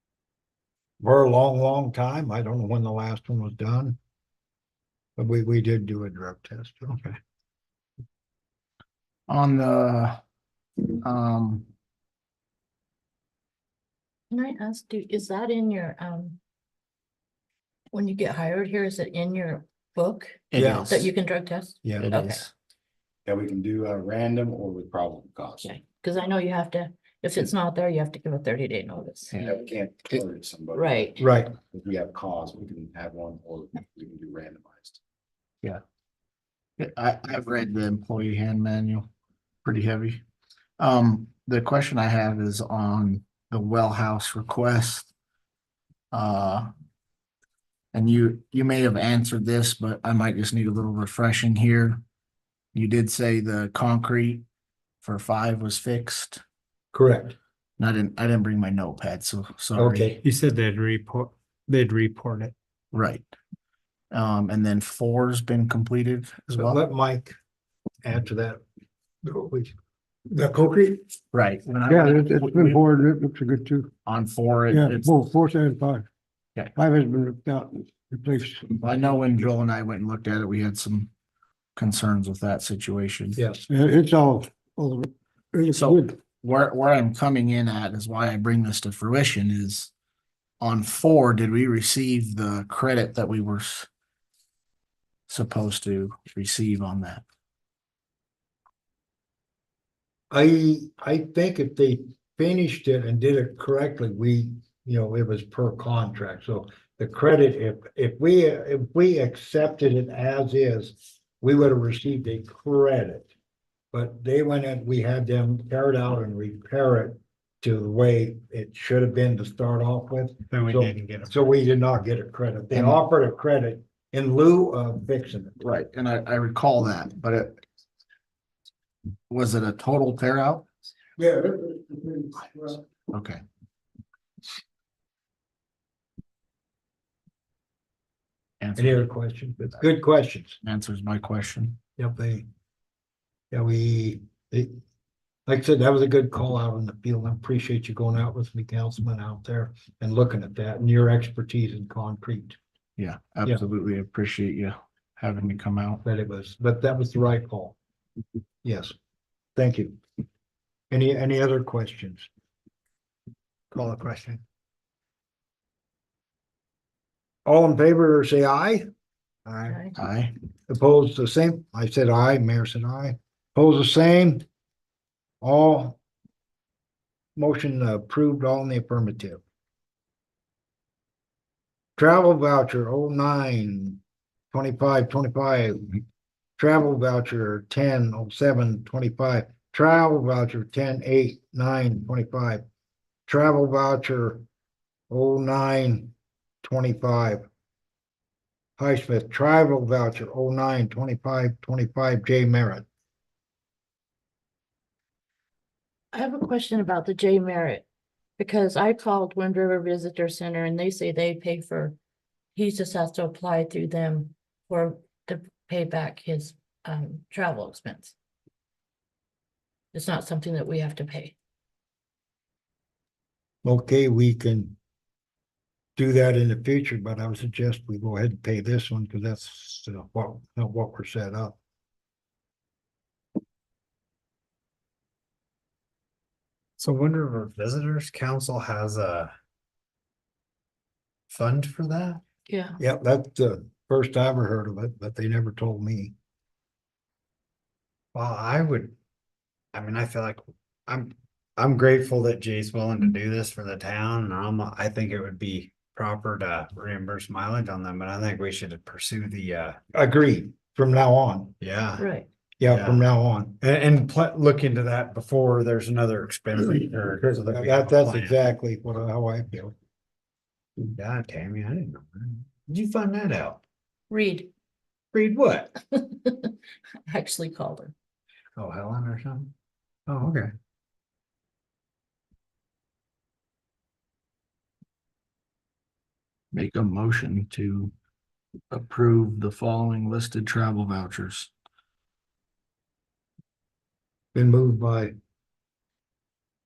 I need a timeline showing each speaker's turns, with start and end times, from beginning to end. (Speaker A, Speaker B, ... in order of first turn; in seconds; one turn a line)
Speaker A: 1.0-4.0
Speaker A: 5.2-7.0
Speaker B: 9.3-10.2
Speaker B: 11.0-11.7
Speaker C: 14.3-16.4
Speaker C: 17.9-22.4
Speaker B: 20.5-21.1
Speaker A: 20.6-20.9
Speaker A: 21.8-22.1
Speaker B: 22.0-22.5
Speaker D: 23.2-25.7
Speaker C: 25.6-29.3
Speaker B: 29.3-29.6
Speaker D: 29.4-35.0
Speaker C: 30.7-31.2
Speaker A: 31.2-31.5
Speaker B: 36.8-39.1
Speaker B: 39.6-40.2
Speaker B: 40.8-45.1
Speaker B: 46.1-46.7
Speaker B: 47.9-52.0
Speaker B: 52.7-54.4
Speaker B: 55.0-56.4
Speaker A: 56.9-57.4
Speaker B: 57.8-60.1
Speaker A: 59.8-60.2
Speaker E: 60.2-62.5
Speaker B: 62.9-63.3
Speaker B: 64.1-66.8
Speaker A: 66.5-67.3
Speaker A: 68.0-68.6
Speaker A: 69.2-69.7
Speaker F: 70.3-71.0
Speaker B: 71.3-72.8
Speaker F: 71.8-73.9
Speaker B: 74.0-75.2
Speaker F: 74.7-76.1
Speaker F: 76.8-78.8
Speaker B: 78.8-81.1
Speaker B: 81.8-83.4
Speaker A: 83.4-83.7
Speaker F: 83.7-86.1
Speaker B: 85.7-89.9
Speaker B: 90.6-93.9
Speaker B: 95.3-97.2
Speaker A: 100.3-113.3
Speaker A: 113.9-125.6
Speaker E: 120.5-121.4
Speaker B: 122.7-123.0
Speaker B: 125.6-127.6
Speaker B: 129.3-130.7
Speaker F: 131.2-132.8
Speaker B: 133.1-133.4
Speaker B: 138.6-139.0
Speaker A: 138.8-140.6
Speaker B: 140.6-141.8
Speaker A: 142.0-142.4
Speaker A: 143.5-144.8
Speaker A: 145.5-152.6
Speaker B: 153.0-156.0
Speaker A: 156.0-157.8
Speaker A: 158.6-158.9
Speaker A: 159.6-160.0
Speaker A: 160.9-162.3
Speaker E: 163.7-164.4
Speaker A: 167.4-168.8
Speaker C: 169.7-169.9
Speaker B: 169.9-170.3
Speaker A: 170.7-174.4
Speaker A: 175.4-176.0
Speaker A: 177.3-179.4
Speaker A: 182.0-184.0
Speaker A: 184.5-186.0
Speaker A: 186.6-192.6
Speaker A: 193.3-194.4
Speaker A: 195.1-197.4
Speaker A: 198.8-202.9
Speaker C: 206.1-207.8
Speaker C: 208.4-212.0
Speaker C: 212.5-218.1
Speaker C: 219.9-221.3
Speaker A: 223.6-224.8
Speaker A: 225.9-231.6
Speaker E: 236.8-239.3
Speaker E: 241.3-242.2
Speaker C: 242.5-242.8
Speaker A: 242.8-246.1
Speaker E: 248.1-248.9
Speaker E: 249.7-259.8
Speaker A: 259.9-261.5
Speaker E: 261.6-262.1
Speaker C: 262.0-262.3
Speaker A: 262.6-263.6
Speaker E: 262.6-263.0
Speaker E: 263.6-268.5
Speaker A: 267.2-269.7
Speaker E: 270.9-273.6
Speaker C: 274.1-274.5
Speaker E: 275.1-275.7
Speaker C: 276.0-276.5
Speaker C: 277.1-277.9
Speaker E: 278.6-279.5
Speaker E: 280.1-280.5
Speaker B: 286.5-287.9
Speaker B: 288.7-291.5
Speaker A: 294.3-295.1